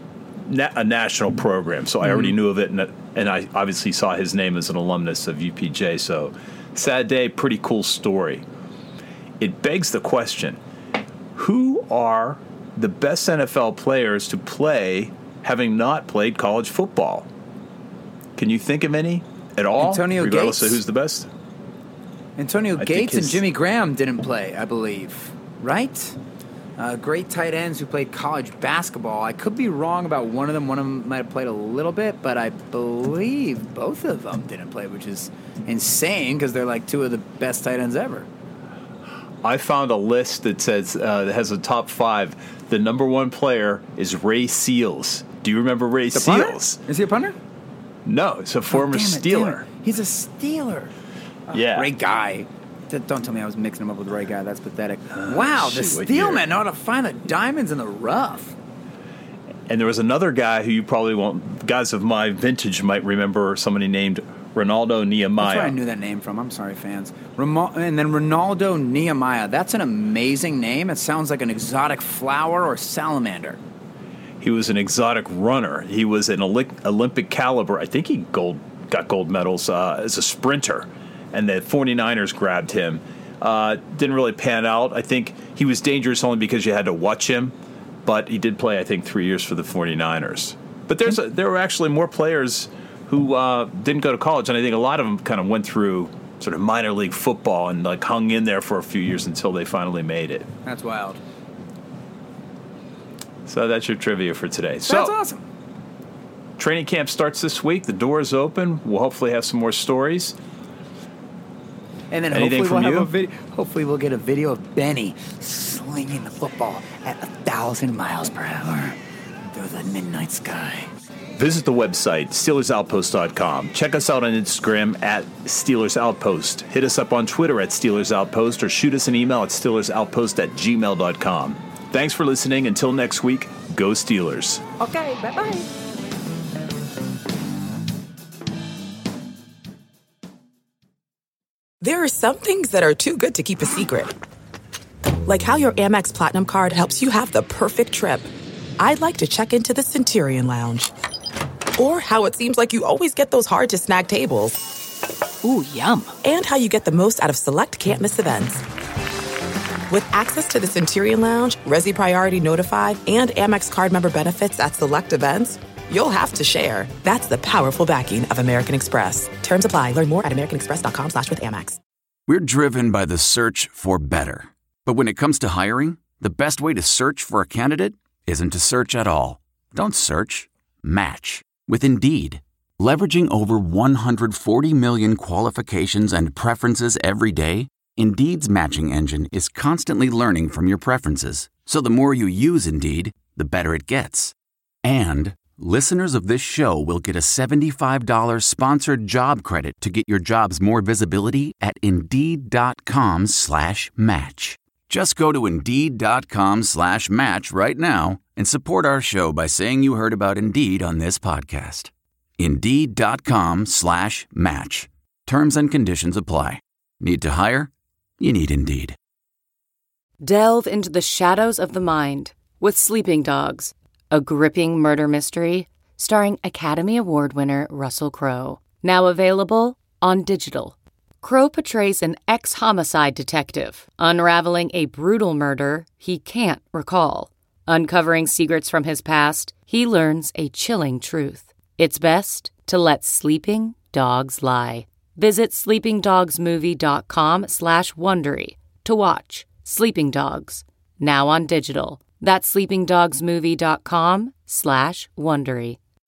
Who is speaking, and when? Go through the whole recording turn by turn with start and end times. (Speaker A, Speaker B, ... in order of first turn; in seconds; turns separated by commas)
Speaker A: 0.4-8.4, Speaker A: 9.4-10.6, Speaker A: 11.3-17.3, Speaker A: 18.4-21.3, Speaker B: 19.8-20.8, Speaker B: 22.4-26.2, Speaker A: 22.8-23.4, Speaker B: 26.8-38.3, Speaker A: 39.4-46.8, Speaker B: 46.1-47.4, Speaker A: 48.0-49.6, Speaker B: 48.7-50.9, Speaker B: 51.5-58.5, Speaker A: 51.5-51.9, Speaker A: 55.1-56.5, Speaker A: 59.7-65.8, Speaker B: 65.4-73.6, Speaker A: 74.4-100.5, Speaker B: 100.6-101.2, Speaker A: 103.5-105.1, Speaker B: 104.8-105.4, Speaker A: 106.6-110.3, Speaker B: 112.1-120.9, Speaker A: 112.3-113.1, Speaker A: 121.4-134.6, Speaker B: 134.8-135.7, Speaker C: 141.8-144.1, Speaker C: 145.2-150.9, Speaker C: 151.8-154.6, Speaker B: 155.4-156.1, Speaker C: 156.2-158.6, Speaker C: 159.9-171.8, Speaker D: 172.3-219.0, Speaker E: 220.2-255.8